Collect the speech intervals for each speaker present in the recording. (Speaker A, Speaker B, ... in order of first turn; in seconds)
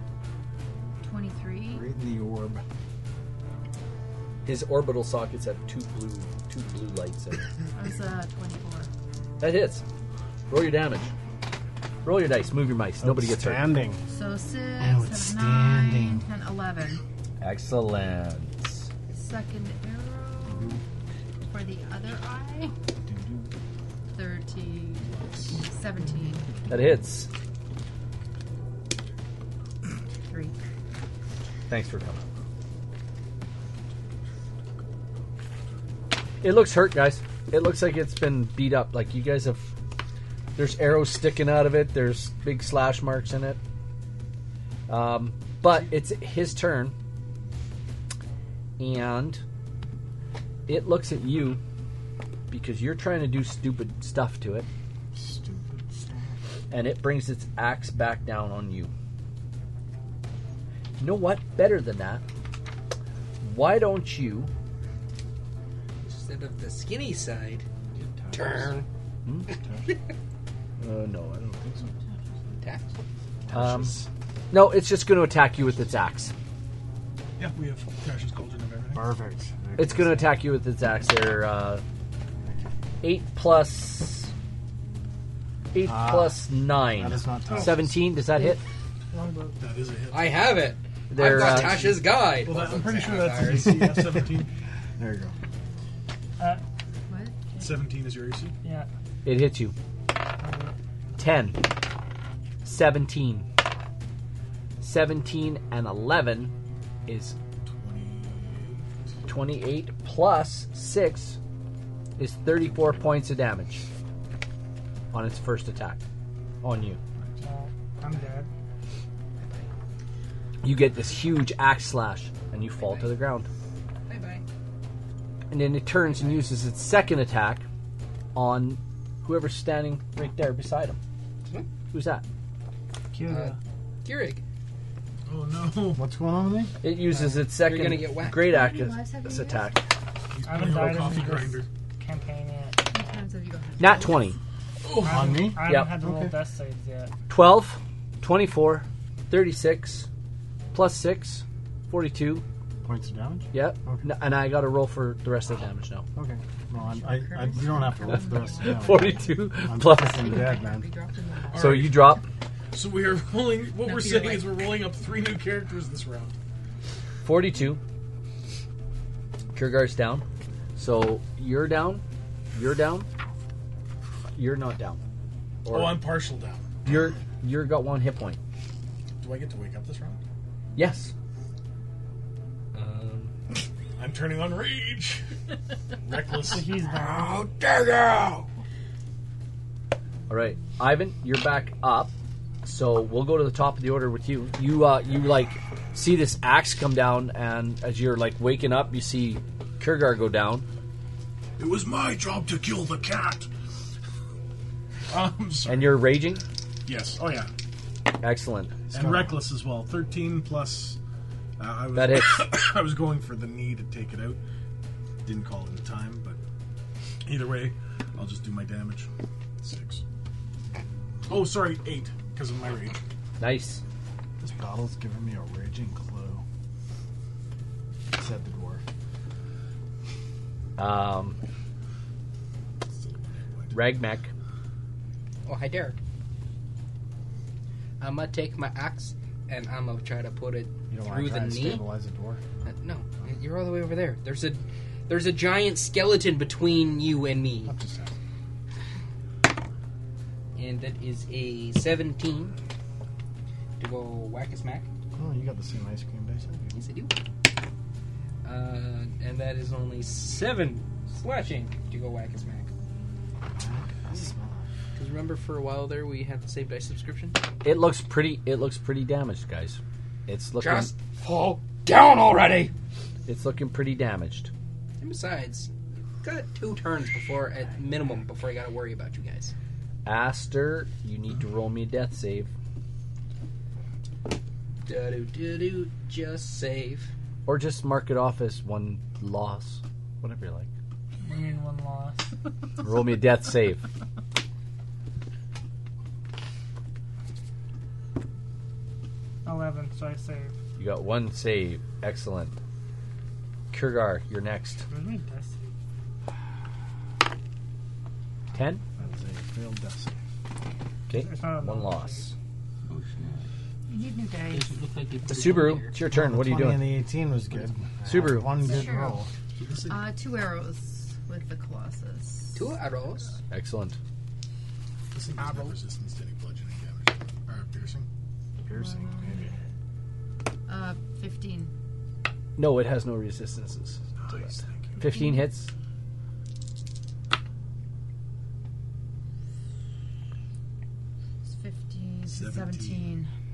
Speaker A: 1.0-1.8, 7.7-8.9, 14.1-17.0, 19.1-20.8, 21.4-22.7, 24.1-26.6, 30.3-30.6, 97.1-97.8, 138.4-139.7, 142.9-144.3, 156.8-159.3, 159.8-161.9, 163.8-164.6, 313.9-314.7, 318.6-319.2, 319.9-322.7, 328.7-329.5, 330.7-331.7, 335.1-335.5, 341.4-343.3
Speaker B: 1.7-2.6, 13.0-14.0, 14.8-16.2, 20.4-20.8, 23.0-23.5, 55.1-56.4, 67.9-68.8, 69.5-69.9, 73.5-74.1, 78.9-80.4, 85.8-88.1, 93.4-94.5, 95.0-95.3, 135.9-136.7, 145.1-146.3, 152.8-154.1, 156.1-160.9, 208.9-209.4, 224.4-226.4, 228.1-228.8, 240.9-242.4, 247.6-248.2, 255.1-256.8, 263.5-264.6, 309.0-310.1, 316.1-319.3, 328.6-329.5
Speaker C: 4.4-7.5, 9.4-9.8, 10.5-11.1, 12.1-13.7, 17.4-18.9, 26.7-27.3, 31.7-32.2, 36.4-39.7, 40.5-43.6, 44.9-46.9, 48.8-49.4, 50.7-51.6, 52.5-54.7, 56.7-58.9, 61.0-62.2, 63.4-64.5, 70.8-71.7, 73.5-76.3, 79.8-81.8, 83.0-84.3, 85.7-88.6, 91.1-91.9, 99.2-99.7, 101.2-101.6, 102.6-103.5, 104.8-106.5, 107.1-107.3, 109.3-111.4, 112.2-113.8, 115.1-116.0, 116.6-117.0, 120.6-123.5, 125.5-127.6, 128.3-131.0, 131.9-132.2, 136.8-139.9, 143.8-144.4, 145.6-145.9, 147.3-150.1, 150.7-152.4, 153.5-156.1, 158.1-160.6, 161.5-162.2, 167.2-167.8, 169.5-170.2, 170.8-173.1, 174.3-175.0, 175.6-176.0, 176.8-178.4, 180.8-181.1, 182.7-183.3, 187.3-188.4, 190.3-192.1, 192.6-200.6, 205.7-206.4, 208.2-208.9, 211.9-212.4, 223.4-223.8, 230.8-231.4, 233.7-234.3, 267.6-270.9, 273.3-274.5, 280.1-282.5, 287.4-290.7, 292.8-293.8, 300.8-302.6, 303.7-304.8, 308.5-308.8, 311.1-312.3, 315.3-317.0, 318.1-318.7, 323.5-324.0, 332.6-334.4, 335.0-335.7
Speaker D: 25.0-25.6, 77.4-79.1, 89.6-90.7, 91.2-94.5, 97.6-98.5, 107.6-108.9, 135.3-136.0, 140.3-141.7, 144.8-145.5, 161.5-162.1, 162.7-166.3, 175.7-176.9, 179.2-180.2, 184.0-185.3, 186.0-186.7, 201.6-203.5, 205.1-206.2, 206.8-207.5, 208.9-211.0, 211.6-214.4, 215.2-216.4, 217.2-219.1, 219.6-220.0, 221.3-223.0, 232.9-233.8, 319.6-320.1, 325.1-328.1, 334.2-335.1, 342.3-343.1
Speaker E: 66.0-67.7, 68.3-68.9, 72.6-72.9, 90.1-93.8, 122.8-123.1, 124.1-124.4, 133.3-134.4, 137.6-138.4, 235.4-236.0, 238.0-241.8, 242.7-247.7, 250.6-252.5, 253.8-254.9, 256.7-257.1, 258.4-262.7, 264.9-267.4, 270.6-272.7, 275.0-279.5, 284.9-287.1, 312.9-313.4, 314.5-315.9, 322.5-323.4, 325.4-325.7
Speaker F: 89.1-89.6, 98.6-98.9, 100.4-100.7, 117.4-118.5, 133.1-133.6, 140.4-142.8, 145.0-147.1, 186.5-187.3, 291.2-292.2, 299.4-300.6, 304.9-305.7, 311.1-312.3